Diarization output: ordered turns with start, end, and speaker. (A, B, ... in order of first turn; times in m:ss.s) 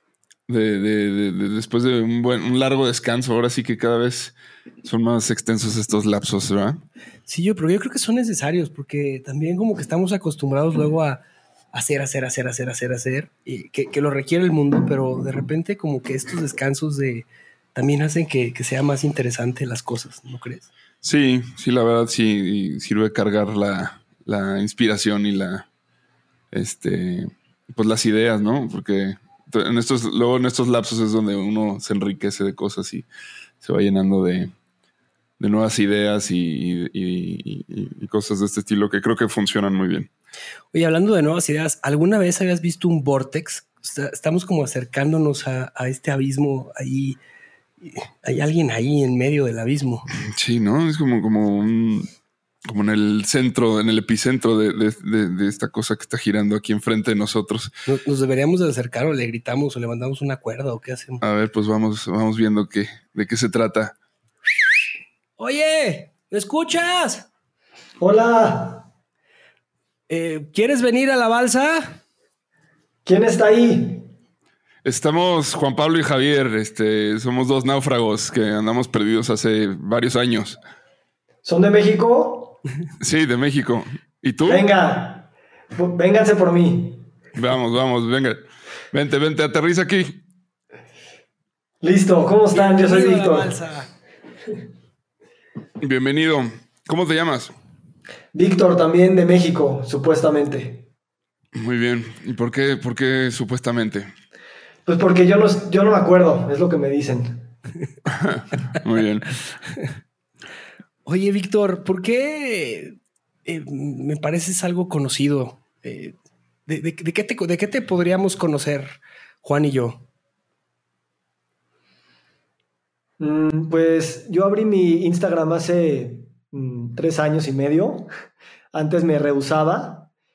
0:00.5-0:06.8 A
0:07.3-0:20.7 B
0:21.0-0:25.7 A
0:26.5-0:33.1 A
0:33.6-0:34.5 A
0:35.4-0:40.1 A
0:40.7-0:47.2 B
0:47.8-0:50.1 B
0:50.2-0:52.1 A
0:52.7-0:57.8 A
0:57.9-1:01.2 B
1:01.2-1:04.0 A
1:05.4-1:07.3 B
1:08.0-1:08.9 C
1:10.1-1:12.0 B
1:13.0-1:14.1 C
1:14.8-1:20.6 A
1:21.4-1:22.6 C
1:23.0-1:24.7 A
1:24.5-1:27.1 C
1:27.4-1:30.2 A
1:31.8-1:33.5 C
1:32.5-1:33.9 B
1:35.8-1:37.5 A
1:38.3-1:40.9 C
1:41.6-1:44.1 A
1:44.9-1:47.5 C
1:48.2-1:49.4 A
1:51.0-1:56.2 B
1:56.7-2:00.1 B
2:03.2-2:08.1 C
2:08.7-2:10.1 C